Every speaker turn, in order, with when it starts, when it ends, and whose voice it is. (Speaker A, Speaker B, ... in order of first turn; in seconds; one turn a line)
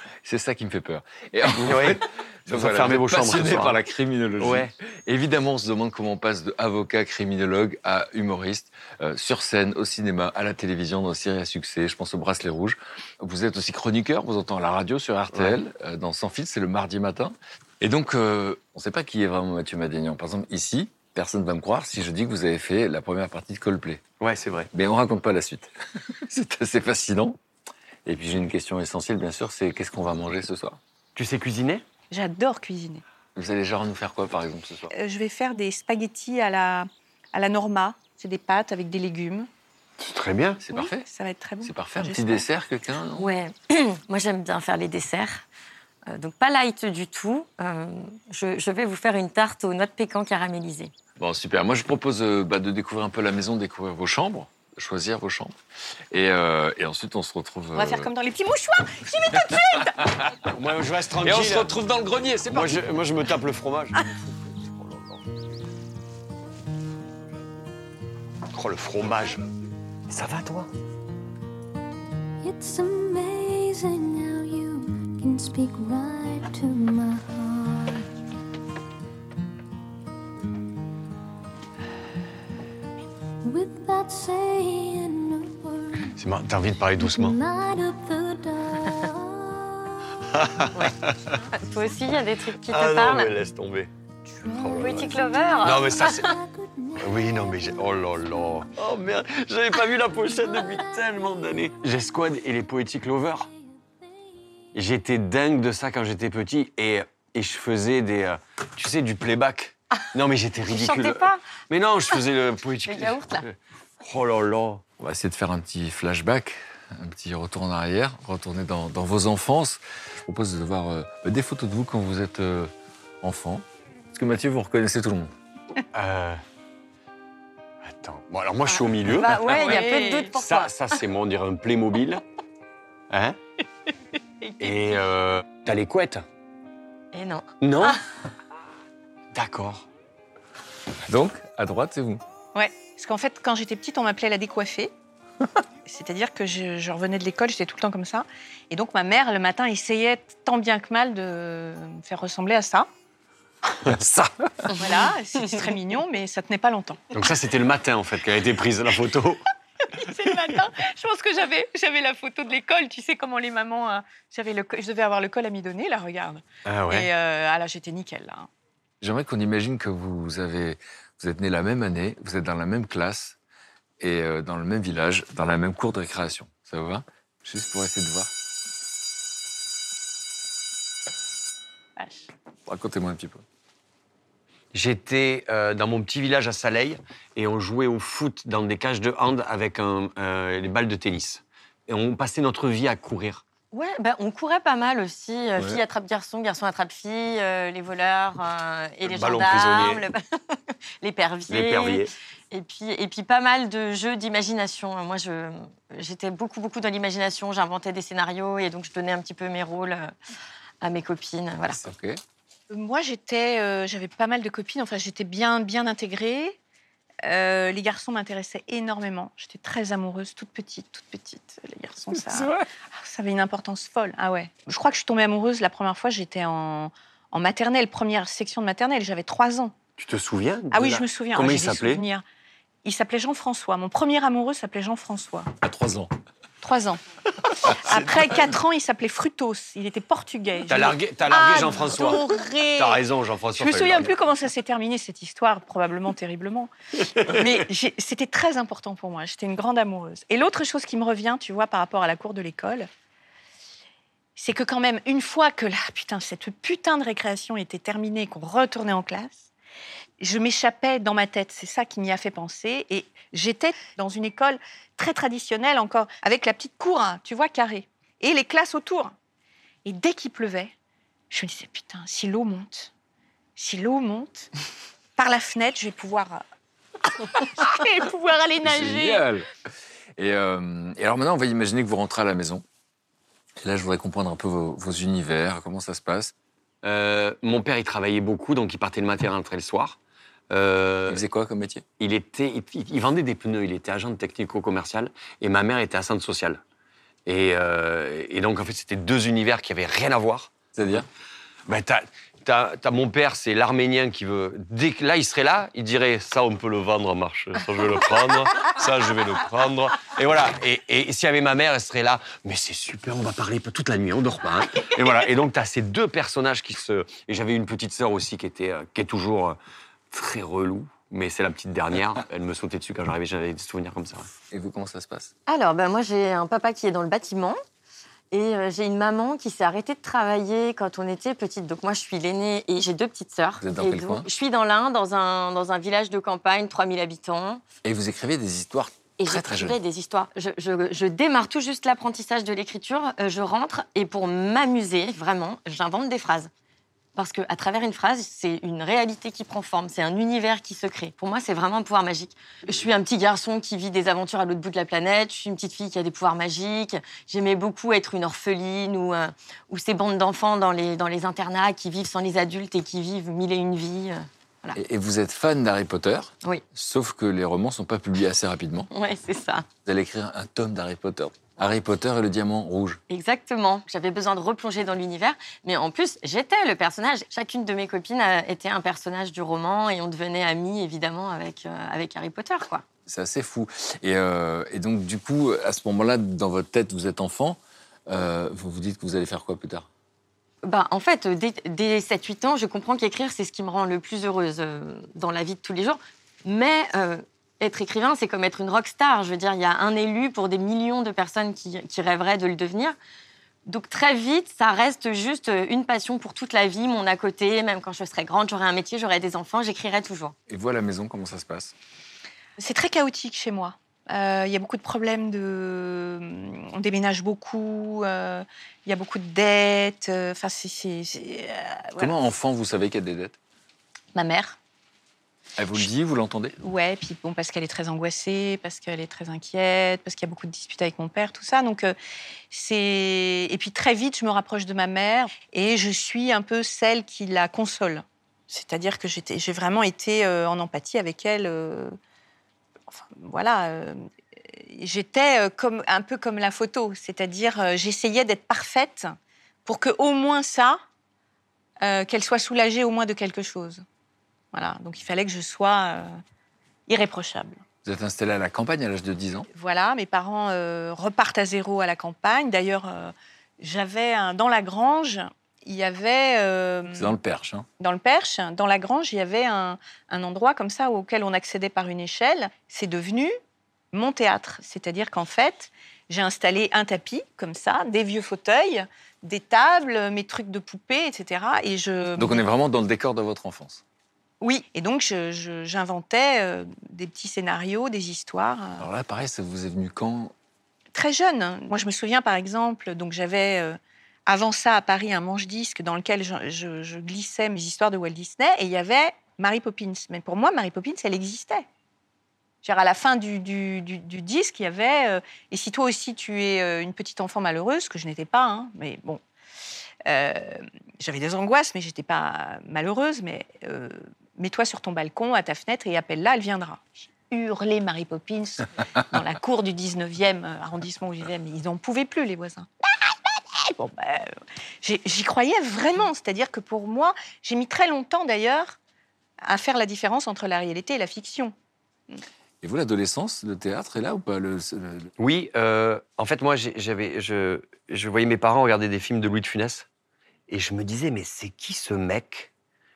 Speaker A: 0.2-24.0
Speaker B: 1.5-3.8
Speaker B: 4.4-4.7
Speaker B: 15.3-15.6
Speaker B: 24.2-24.7
Speaker A: 24.7-27.4
Speaker A: 28.0-30.8
Speaker B: 31.1-31.8
Speaker C: 32.1-33.0
Speaker A: 33.3-34.9
Speaker C: 34.9-39.5
Speaker B: 40.0-40.6
Speaker A: 40.6-41.0
Speaker C: 40.7-42.4
Speaker A: 41.6-43.3
Speaker D: 43.2-45.4
Speaker D: 46.1-50.9
Speaker A: 51.2-55.6
Speaker A: 56.1-58.1
Speaker C: 57.7-60.3
Speaker B: 60.5-61.7
Speaker A: 61.2-62.8
Speaker B: 62.5-65.2
Speaker B: 68.5-69.4
Speaker B: 70.1-70.7
Speaker E: 72.4-78.0
Speaker E: 83.4-86.1
Speaker B: 86.2-87.4
Speaker E: 87.0-89.9
Speaker B: 90.3-91.2
Speaker D: 91.5-93.3
Speaker B: 92.7-93.9
Speaker B: 94.4-96.3
Speaker E: 94.4-95.1
Speaker D: 94.8-96.2
Speaker E: 96.1-97.5
Speaker B: 97.0-103.5
Speaker E: 100.5-100.8
Speaker B: 104.7-114.8
Speaker D: 110.7-111.4
Speaker D: 112.9-113.4
Speaker A: 115.0-125.3
Speaker B: 125.9-126.4
Speaker B: 127.8-129.8
Speaker D: 129.1-130.7
Speaker C: 129.4-130.3
Speaker B: 130.3-132.2
Speaker B: 133.1-133.3
Speaker C: 134.4-134.7
Speaker B: 134.6-136.2
Speaker D: 137.1-138.0
Speaker B: 137.6-138.0
Speaker B: 139.3-139.9
Speaker A: 141.1-142.2
Speaker C: 142.5-144.9
Speaker C: 145.8-152.9
Speaker B: 153.8-154.2
Speaker A: 153.9-154.3
Speaker C: 154.8-157.0
Speaker B: 157.1-159.4
Speaker C: 160.0-168.5
Speaker B: 166.6-167.1
Speaker A: 169.0-173.4
Speaker A: 174.0-178.3
Speaker C: 182.0-182.3
Speaker A: 182.7-183.4
Speaker B: 184.7-193.4
Speaker D: 193.7-200.2
Speaker B: 199.0-200.0
Speaker D: 201.0-210.1
Speaker B: 201.5-202.1
Speaker D: 210.8-211.8
Speaker A: 211.7-212.2
Speaker C: 212.7-216.6
Speaker C: 217.2-229.7
Speaker A: 222.1-222.6
Speaker B: 230.0-232.0
Speaker C: 230.7-232.2
Speaker C: 232.8-235.5
Speaker A: 235.6-236.1
Speaker C: 236.6-237.0
Speaker C: 237.7-243.0
Speaker B: 240.7-244.1
Speaker C: 243.6-252.9
Speaker B: 247.3-247.5
Speaker C: 254.4-259.5
Speaker C: 260.2-269.1
Speaker C: 269.8-270.7
Speaker C: 271.3-272.9
Speaker C: 273.6-274.5
Speaker C: 275.1-276.4
Speaker C: 277.3-279.2
Speaker A: 278.6-279.4
Speaker A: 280.2-282.6
Speaker A: 283.6-286.3
Speaker B: 286.8-290.0
Speaker B: 290.5-291.2
Speaker A: 291.1-291.8
Speaker B: 292.0-296.6
Speaker B: 297.2-300.5
Speaker A: 300.7-301.1
Speaker B: 301.7-319.6
Speaker B: 320.1-324.3
Speaker A: 324.5-325.3
Speaker D: 325.5-327.6
Speaker D: 328.3-337.6
Speaker A: 333.6-334.3
Speaker A: 337.8-339.8
Speaker D: 339.2-346.5
Speaker D: 347.1-364.8
Speaker A: 364.7-368.9
Speaker D: 368.9-369.6
Speaker A: 369.8-373.0
Speaker D: 373.1-382.8
Speaker A: 383.1-389.9
Speaker D: 390.6-402.9
Speaker D: 403.6-410.3
Speaker A: 410.5-411.7
Speaker C: 412.6-422.1
Speaker A: 422.0-423.4
Speaker C: 424.1-424.6
Speaker A: 425.6-426.6
Speaker C: 426.6-431.9
Speaker C: 432.5-442.0
Speaker C: 442.9-450.8
Speaker C: 451.8-453.8
Speaker C: 454.5-456.2
Speaker C: 456.9-457.6
Speaker A: 457.8-459.5
Speaker C: 459.5-467.1
Speaker A: 466.9-467.7
Speaker C: 467.8-473.3
Speaker C: 473.9-482.4
Speaker A: 482.1-483.8
Speaker C: 484.4-488.9
Speaker A: 488.8-490.3
Speaker C: 490.9-501.6
Speaker C: 502.6-509.2
Speaker C: 510.1-528.8
Speaker C: 529.4-531.5
Speaker A: 532.6-535.1
Speaker B: 535.2-539.9
Speaker B: 540.5-542.5